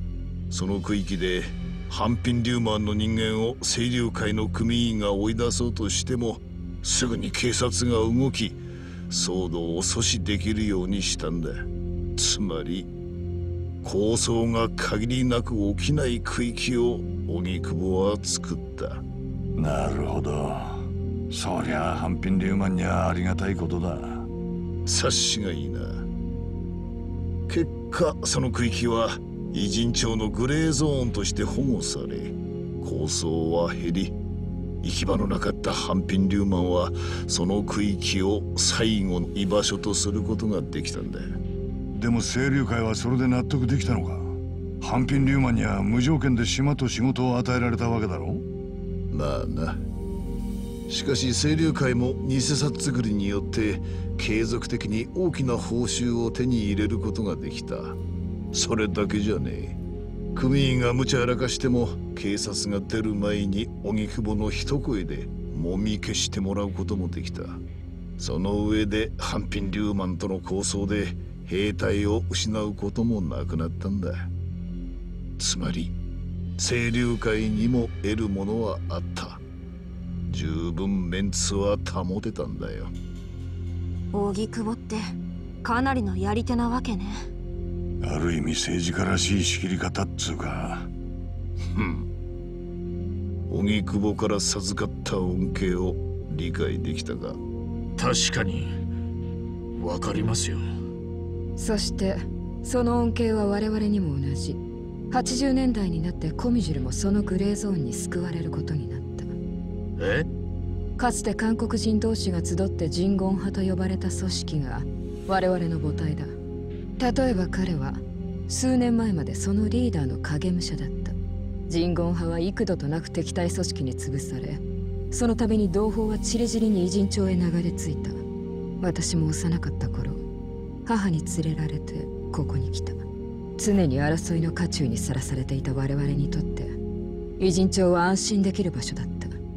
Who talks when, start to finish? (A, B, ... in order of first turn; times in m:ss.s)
0:00.5-0:11.6 A
0:12.2-0:12.9 A
0:13.8-0:19.0 A
0:19.6-0:24.3 B
0:24.9-0:26.0 A
0:27.5-0:34.2 A
0:34.8-0:41.2 A
0:41.9-0:48.4 B
0:49.1-0:49.8 A
0:50.9-0:58.0 A
0:58.5-0:59.8 A
1:00.3-1:07.6 A
1:08.2-1:14.2 A
1:15.4-1:16.0 A
1:16.6-1:19.4 A
1:20.3-1:22.9 A
1:24.1-1:25.1 C
1:25.6-1:27.3 C
1:28.0-1:30.9 B
1:31.8-1:32.1 A
1:33.5-1:37.4 A
1:38.0-1:38.7 D
1:39.8-1:40.6 D
1:41.6-1:49.4 E
1:50.0-1:50.3 D
1:51.0-1:56.3 E
1:57.0-2:01.2 E
2:01.7-2:08.2 E
2:08.8-2:10.2 E
2:10.9-2:13.0 E
2:13.6-2:16.8 E
2:17.4-2:19.4 E